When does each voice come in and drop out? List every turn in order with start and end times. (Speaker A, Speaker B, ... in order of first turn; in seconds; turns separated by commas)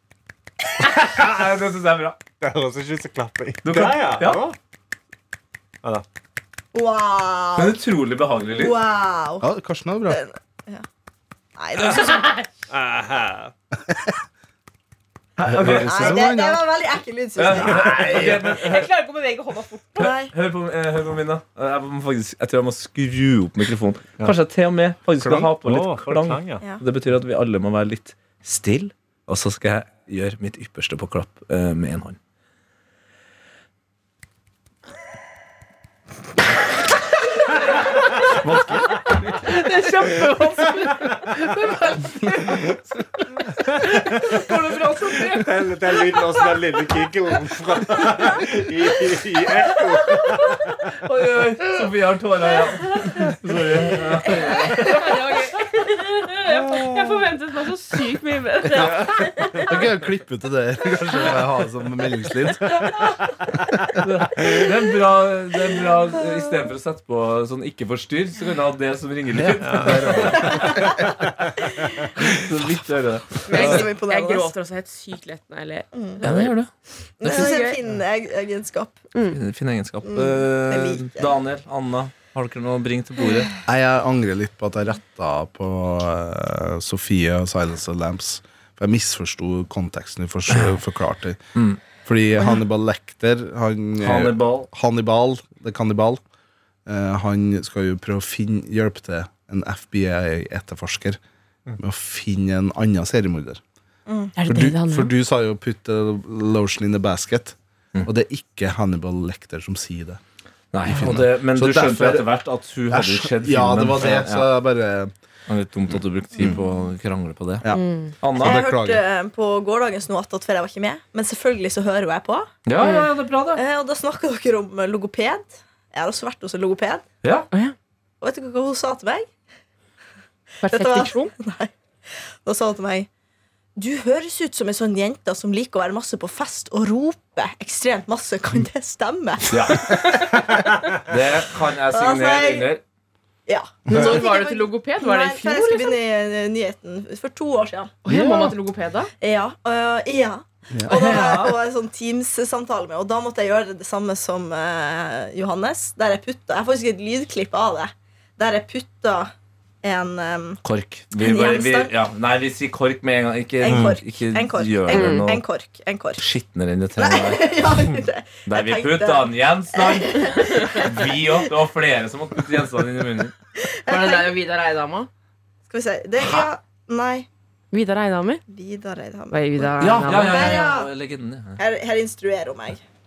Speaker A: 0.8-2.2, Speaker B: 2.4-4.6, Speaker A: 3.6-4.4, Speaker C: 6.7-7.8, Speaker A: 7.6-8.8, Speaker C: 8.5-9.5, Speaker D: 9.4-10.2, Speaker C: 10.1-10.8, Speaker C: 11.6-12.3, Speaker B: 12.7-13.5, Speaker D: 15.4-16.6, Speaker A: 15.5-16.2, Speaker B: 15.6-16.1, Speaker C: 15.7-18.1, Speaker A: 17.4-18.9, Speaker B: 17.6-18.6, Speaker E: 18.5-20.1, Speaker C: 20.0-20.3, Speaker A: 20.0-32.2, Speaker B: 25.2-26.6, Speaker A: 38.2-40.8, Speaker E: 39.5-42.6, Speaker A: 41.5-42.8, Speaker B: 43.7-44.4, Speaker A: 44.4-45.5, Speaker E: 44.5-45.2, Speaker B: 45.3-50.7, Speaker A: 51.0-55.2, Speaker E: 54.4-59.6, Speaker B: 56.5-57.1, Speaker D: 58.7-63.0, Speaker A: 64.0-70.8, Speaker D: 69.4-70.9, Speaker B: 69.6-70.4, Speaker C: 70.4-70.9, Speaker B: 71.3-71.7, Speaker A: 72.2-73.9, Speaker E: 73.5-76.5, Speaker C: 73.5-74.5, Speaker C: 75.9-76.2, Speaker A: 76.2-76.7, Speaker C: 77.2-79.0, Speaker E: 77.2-77.8, Speaker A: 77.2-77.5, Speaker A: 79.3-83.5, Speaker C: 80.0-81.3, Speaker D: 83.7-91.4, Speaker A: 90.5-90.8, Speaker A: 91.5-91.8, Speaker D: 92.0-96.2, Speaker A: 94.0-94.7, Speaker D: 96.9-101.2, Speaker D: 101.8-103.6, Speaker E: 104.4-105.1, Speaker D: 104.5-110.2, Speaker A: 110.7-114.5, Speaker D: 110.9-112.3, Speaker D: 112.9-115.1, Speaker A: 115.5-117.7, Speaker D: 117.6-119.0, Speaker E: 117.7-118.1, Speaker A: 118.2-118.7, Speaker C: 118.4-122.5, Speaker A: 122.7-123.6, Speaker E: 122.8-123.1, Speaker C: 123.5-127.0, Speaker A: 127.2-127.5, Speaker C: 128.2-129.3, Speaker E: 130.6-131.3, Speaker C: 130.7-131.7, Speaker C: 132.4-133.1, Speaker C: 133.8-140.3, Speaker A: 139.5-140.1, Speaker A: 141.1-142.8, Speaker C: 141.9-142.7, Speaker C: 143.5-147.9, Speaker E: 143.9-146.0, Speaker E: 148.1-149.1, Speaker D: 148.1-148.5, Speaker C: 149.2-159.3, Speaker E: 150.9-151.6, Speaker C: 159.8-160.6, Speaker A: 160.6-165.4, Speaker C: 161.2-161.9, Speaker C: 163.6-166.3, Speaker B: 163.7-163.9, Speaker E: 164.9-165.3, Speaker A: 166.2-167.6, Speaker C: 167.0-171.5, Speaker A: 168.4-173.3, Speaker E: 170.3-170.8, Speaker C: 173.6-174.3, Speaker E: 173.9-175.1, Speaker C: 175.7-177.3, Speaker E: 177.7-178.4, Speaker C: 178.5-180.9, Speaker E: 179.3-180.7, Speaker A: 179.8-181.6, Speaker C: 181.6-182.8